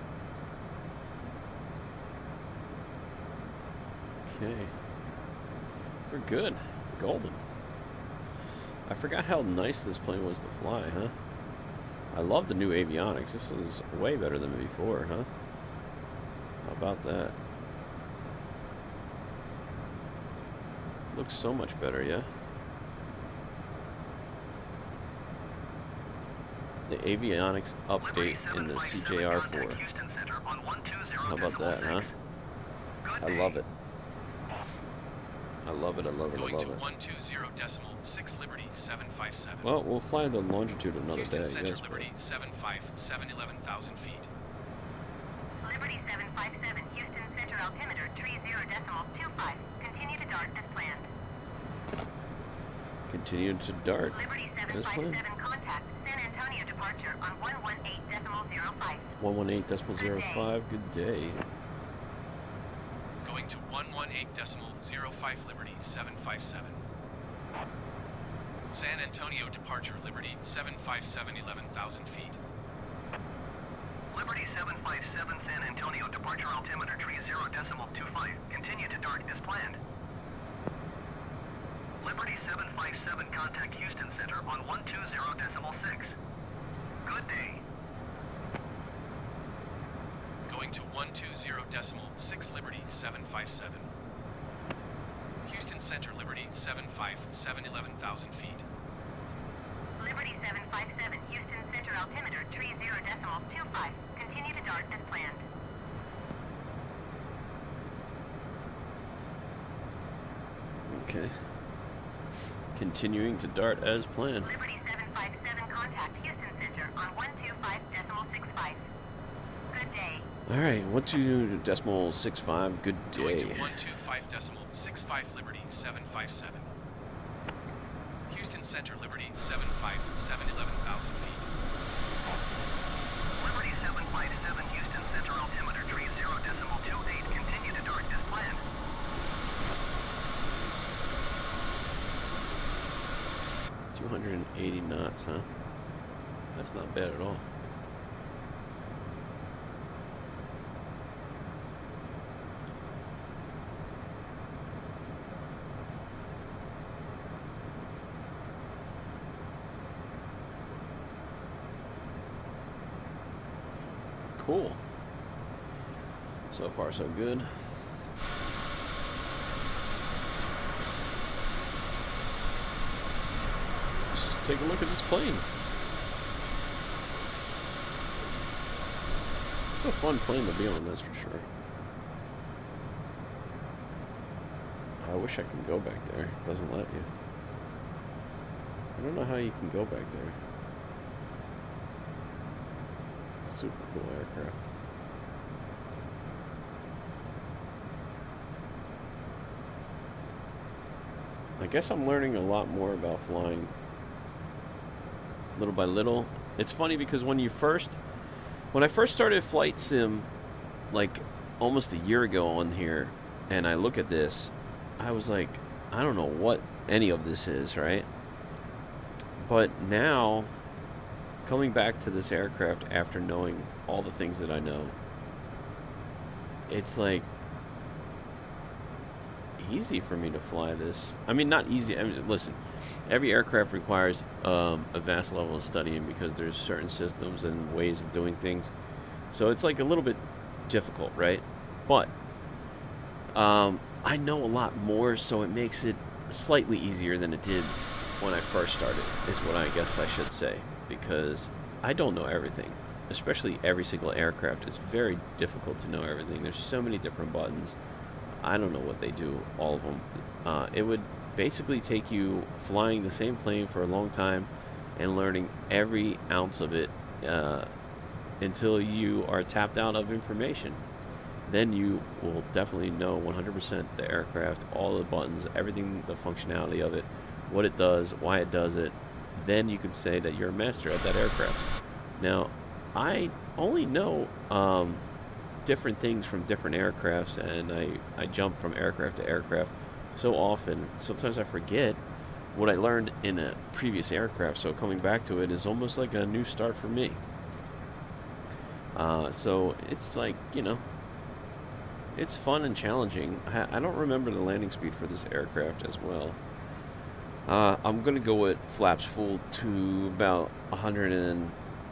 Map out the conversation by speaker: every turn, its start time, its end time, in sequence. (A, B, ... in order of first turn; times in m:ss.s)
0:04.2-0:04.8 A
0:06.1-0:07.4 A
0:08.8-0:11.2 A
0:12.1-0:15.3 A
0:16.6-0:17.3 A
0:21.1-0:22.3 A
0:26.9-0:29.8 A
0:28.0-0:32.1 B
0:31.2-0:32.1 A
0:33.0-0:33.6 B
0:33.2-0:33.7 A
0:35.6-0:36.8 A
0:36.3-0:39.7 C
0:39.6-0:42.1 A
0:41.1-0:44.3 C
0:45.6-0:51.0 D
0:53.1-0:55.2 A
0:54.1-0:59.0 D
0:59.2-1:01.4 A
1:00.0-1:00.4 D
1:03.2-1:06.8 C
1:08.7-1:12.4 C
1:14.1-1:19.8 B
1:22.0-1:26.1 B
1:27.0-1:27.6 B
1:30.5-1:33.8 C
1:35.4-1:38.6 C
1:40.0-1:45.4 D
1:50.8-1:51.6 A
1:52.7-1:54.5 A
1:54.4-1:58.8 D
1:59.7-2:00.2 D
2:00.5-2:03.7 A
2:03.1-2:06.6 C
2:08.3-2:11.4 C
2:13.3-2:18.6 B
2:23.9-2:25.5 A
2:26.5-2:27.4 A
2:44.4-2:44.8 A
2:46.5-2:47.9 A
2:54.1-2:55.5 A
2:59.7-3:01.4 A
3:05.0-3:07.1 A
3:09.0-3:10.4 A
3:13.4-3:14.7 A
3:21.6-3:23.7 A
3:25.5-3:28.0 A
3:28.7-3:30.3 A
3:30.9-3:38.1 A
3:39.4-3:40.5 A
3:41.4-3:45.0 A
3:46.7-3:47.3 A
3:49.6-3:58.7 A
3:59.3-4:02.1 A
4:03.3-4:17.8 A
4:18.4-4:27.7 A
4:28.4-4:30.8 A
4:31.4-4:45.0 A
4:45.6-4:52.0 A
4:52.5-4:57.2 A
4:58.9-5:01.0 A
5:02.1-5:06.4 A
5:07.4-5:11.6 A